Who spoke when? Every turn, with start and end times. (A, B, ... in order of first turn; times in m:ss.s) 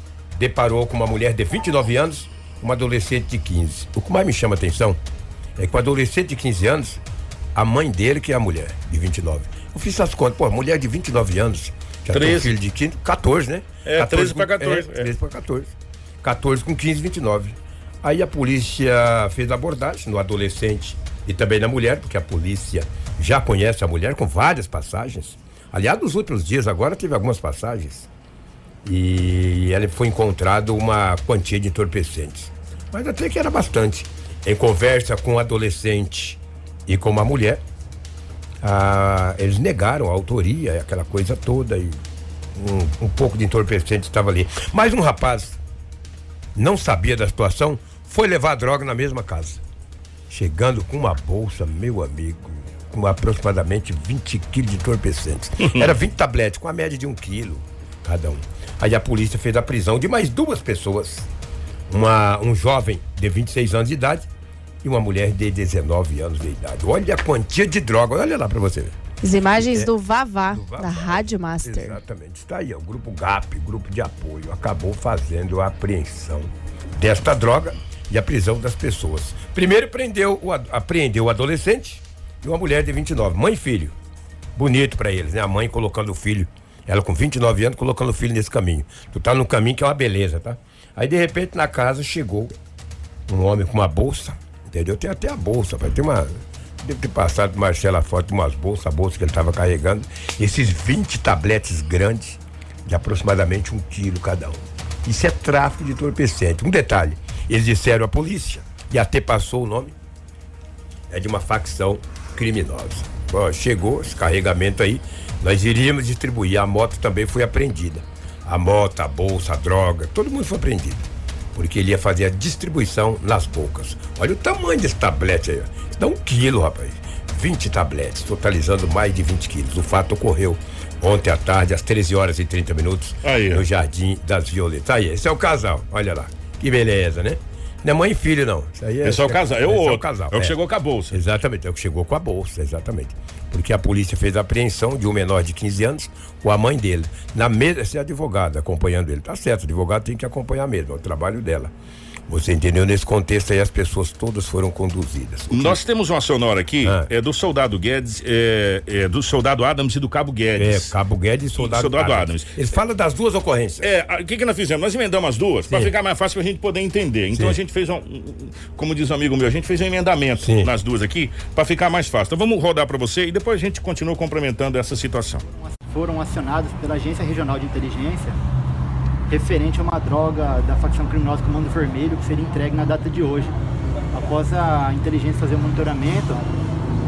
0:00.4-0:05.0 A
0:05.6-0:07.0 A
0:07.5-0:28.1 A
0:12.1-0:12.5 B
0:13.8-0:15.1 B
0:28.8-0:37.6 A
0:38.6-0:42.0 A
0:42.6-0:45.6 A
0:46.6-0:49.6 A
0:50.3-1:01.3 A
1:01.9-1:04.3 A
1:04.8-1:09.0 A
1:09.2-1:12.0 C
1:09.6-1:09.9 A
1:10.5-1:24.0 A
1:24.6-1:32.6 A
1:33.3-1:50.0 A
1:51.1-2:20.6 A
2:13.2-2:13.7 B
2:19.0-2:21.2 B
2:21.1-2:31.7 A
2:32.3-2:35.8 A
2:35.5-2:40.9 B
2:36.8-2:37.1 A
2:40.6-2:43.9 A
2:41.6-2:42.6 B
2:43.8-2:55.4 B
2:47.3-2:47.6 A
2:50.4-2:50.7 A
2:55.8-2:58.4 D
2:59.3-3:03.6 D
3:04.1-3:06.5 D